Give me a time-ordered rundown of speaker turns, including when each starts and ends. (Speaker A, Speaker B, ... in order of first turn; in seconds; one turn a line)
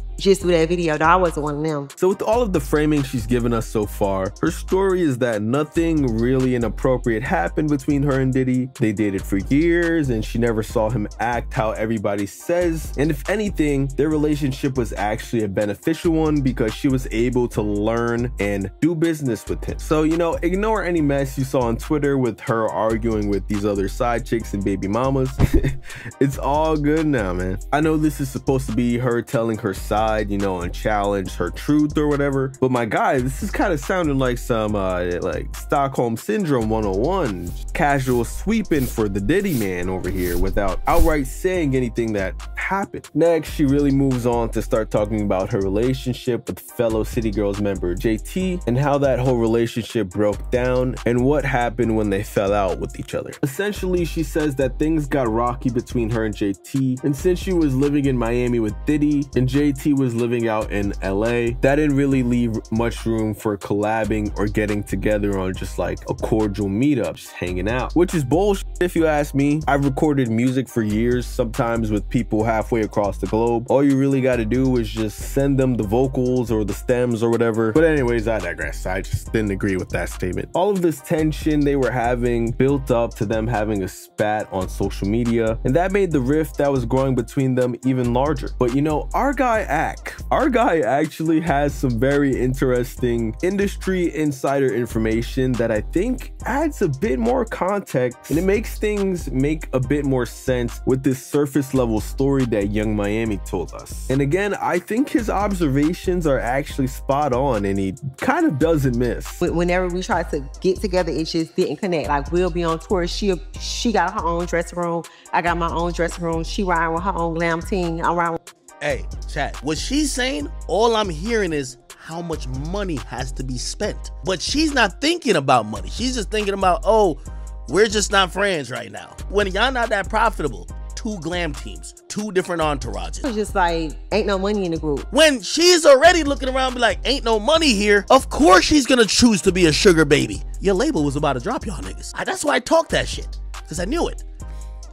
Speaker A: 0.2-1.9
Speaker B: 2.0-109.4
Speaker A: 109.4-118.4
Speaker C: 118.8-133.3
Speaker A: 133.2-135.1
Speaker C: 135.1-144.2